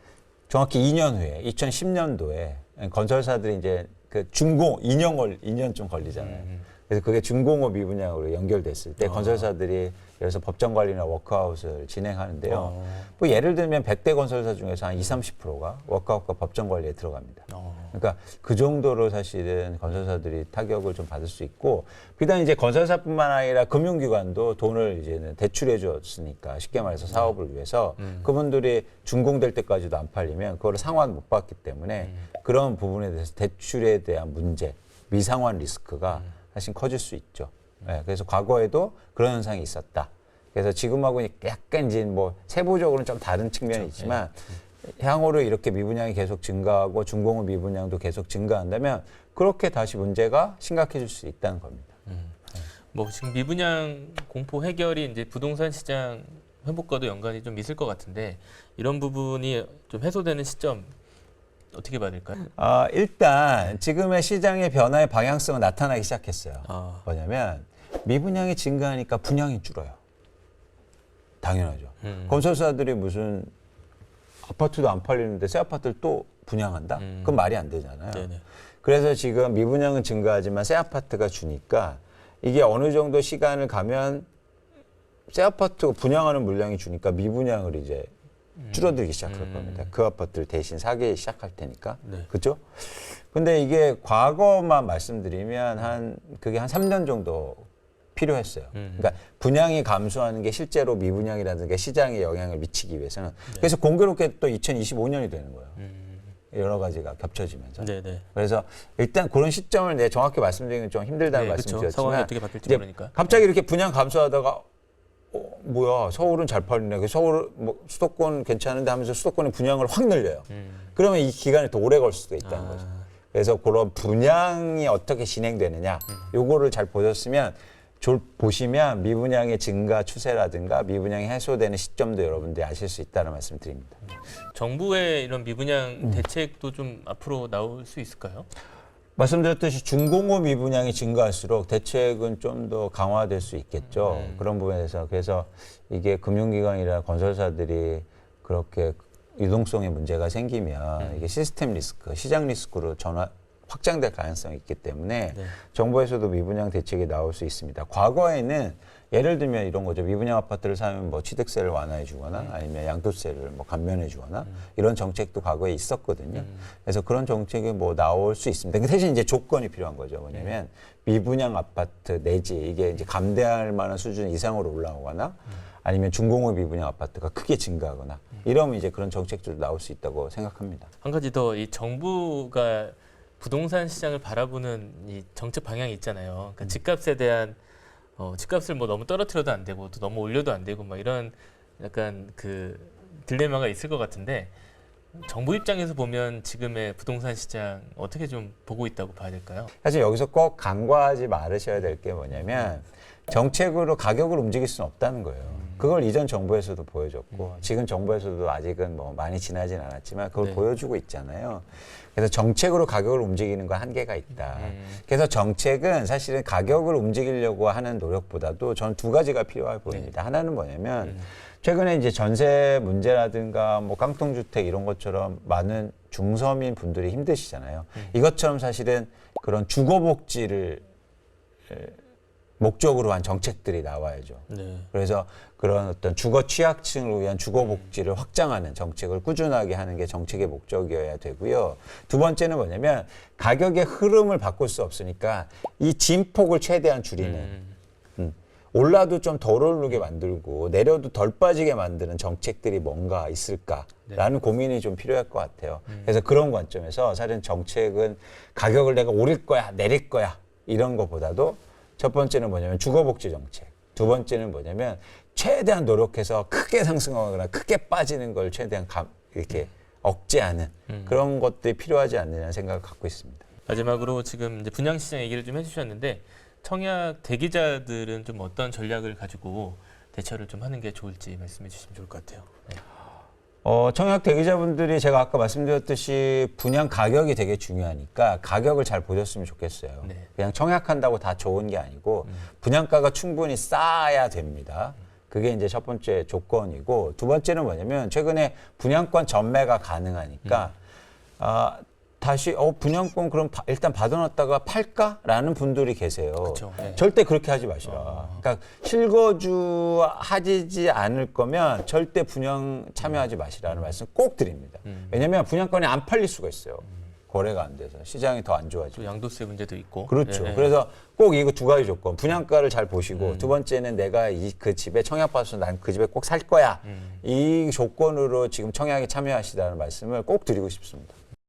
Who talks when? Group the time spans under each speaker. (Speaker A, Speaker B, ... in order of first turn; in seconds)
Speaker A: 0.5-51.9, 62.5-70.0, 71.4-73.5, 74.4-78.3, 78.8-84.3, 85.3-88.1, 88.7-105.8, 106.5-114.6, 115.3-134.0, 139.2-180.9, 199.8-230.8, 231.7-232.0, 232.6-247.5, 248.2-273.5, 283.6-300.7, 301.4-319.1, 320.1-331.2
Speaker B: 6.1-6.7, 9.0-9.5, 12.5-13.1, 17.5-17.9, 27.0-27.4, 28.0-28.3, 32.0-32.3, 43.7-44.2, 52.1-60.9, 61.7-62.5, 66.6-67.1, 72.0-72.4, 77.0-77.4, 78.1-78.4, 88.6-89.9, 98.7-99.2, 105.8-106.3, 107.8-108.2, 111.3-113.4, 120.5-120.9, 122.4-123.1, 134.1-138.5, 143.9-144.5, 151.0-151.3, 155.3-155.6, 166.3-166.7, 181.0-187.6, 188.2-194.5, 195.1-199.7, 202.4-202.7, 205.4-205.9, 207.3-207.7, 210.4-210.6, 214.5-215.0, 219.9-220.1, 221.0-221.3, 234.5-234.9, 247.2-247.8, 255.9-256.2, 270.9-271.2, 273.6-282.8, 300.4-300.7, 306.4-307.0, 307.8-308.4, 314.8-315.2, 318.9-320.8, 323.1-323.6, 326.8-327.2